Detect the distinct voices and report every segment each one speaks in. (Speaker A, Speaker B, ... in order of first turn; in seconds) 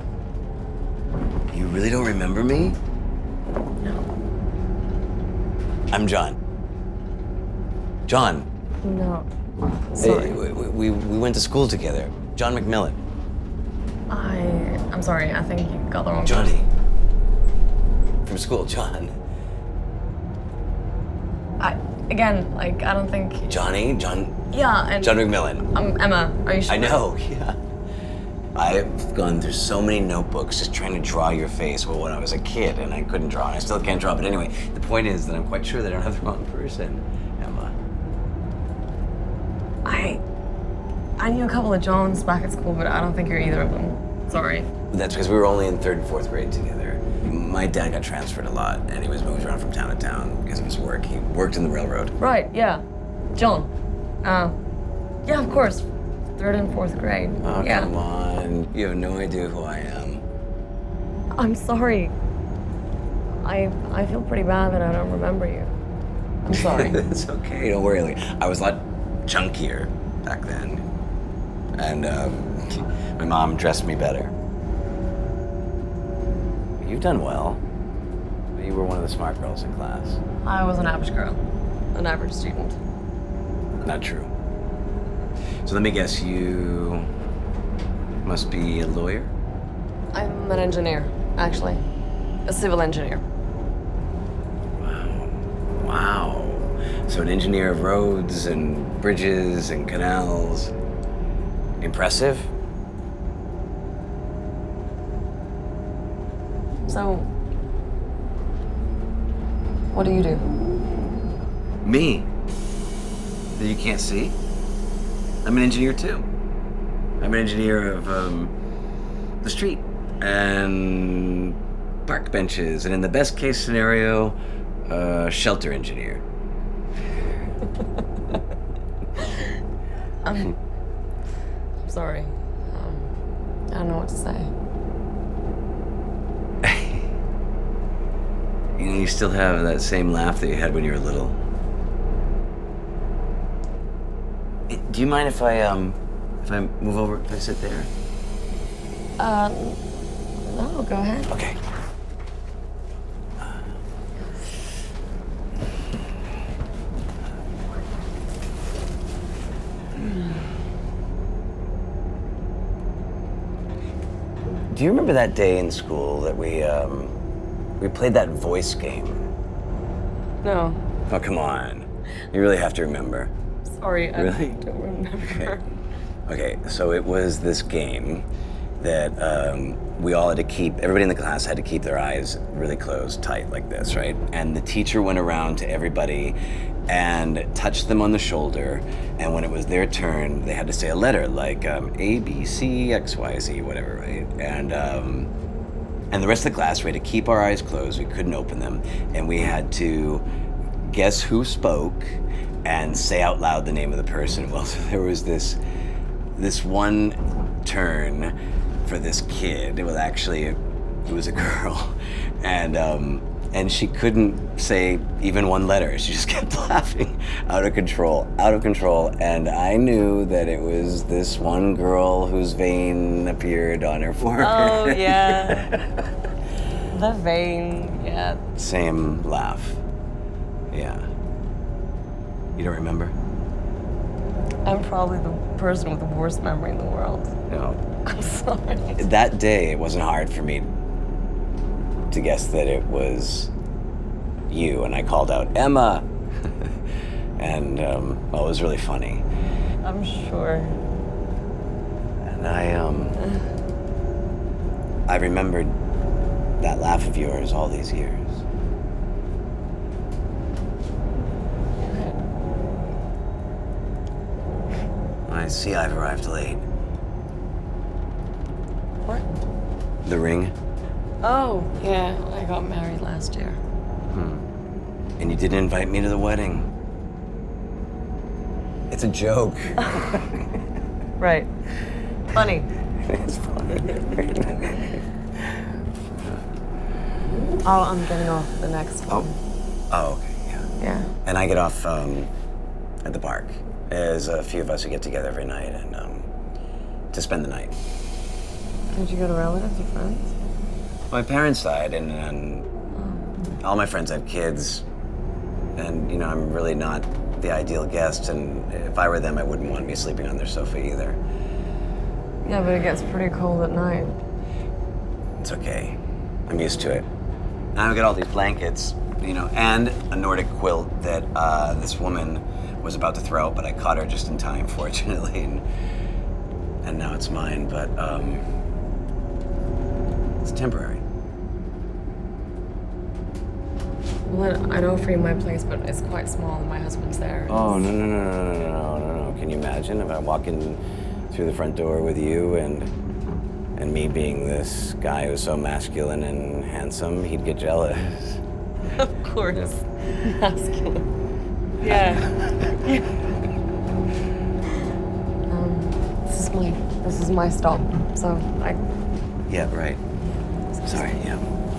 Speaker A: 1.5-2.8, 5.9-6.4, 8.1-8.5, 10.0-13.0, 16.2-16.6, 18.2-19.1, 23.5-24.4, 25.0-25.7, 26.7-27.6, 28.5-37.8, 44.9-52.1, 57.4-60.2, 66.5-70.8, 71.8-74.3, 76.8-77.6, 78.5-80.2, 83.8-84.3, 85.6-87.1, 88.2-89.3, 94.8-100.7, 101.8-102.5, 111.8-112.3, 113.5-114.4, 115.4-116.2, 117.2-118.5, 119.4-126.2, 136.6-137.1, 138.8-141.4, 144.7-147.9, 151.3-151.6, 164.7-167.2, 167.8-169.2, 171.1-173.3, 174.1-174.6, 175.2-175.5, 176.3-178.3, 178.8-195.3, 196.1-200.2, 200.8-205.6, 206.3-226.1, 228.5-229.8, 230.7-231.1, 232.6-233.2, 237.5-237.8, 239.0-240.7, 242.1-243.5, 244.5-246.7, 247.4-249.2, 252.2-253.2, 255.1-255.8, 256.6-258.4, 265.3-266.6, 270.0-270.5, 274.1-274.4, 275.2-276.7, 278.9-280.4, 283.0-285.0, 289.9-290.6, 291.2-292.3, 293.0-296.3, 297.1-297.8, 301.1-302.7, 303.6-304.8, 305.8-311.2, 315.4-317.1, 317.7-325.6, 326.8-328.4, 330.4-331.0, 337.5-342.9, 343.8-348.4, 351.9-352.7, 359.5-360.0, 360.9-361.4
Speaker B: 8.8-9.3, 9.9-10.4, 14.1-16.6, 21.6-23.5, 24.5-27.0, 39.8-40.2, 41.2-44.7, 52.2-52.8, 53.3-53.7, 54.2-54.5, 55.2-55.8, 56.4-57.9, 61.4-62.1, 63.4-65.7, 66.4-67.0, 80.4-82.8, 90.1-91.8, 92.5-93.2, 106.9-107.3, 109.9-110.5, 130.2-130.6, 131.8-133.1, 133.7-134.5, 149.2-149.8, 150.4-151.3, 170.4-170.8, 173.7-175.7, 224.4-225.7, 226.9-228.4, 234.6-237.3, 238.0-239.0, 249.8-250.8, 261.8-262.2, 269.0-269.4, 271.2-273.6, 281.2-281.5, 282.3-282.7, 287.6-289.4, 290.8-291.1, 298.9-300.3, 302.9-303.4, 312.4-314.1, 334.2-337.9, 348.9-351.1, 351.8-353.2, 355.5-358.8, 360.2-361.2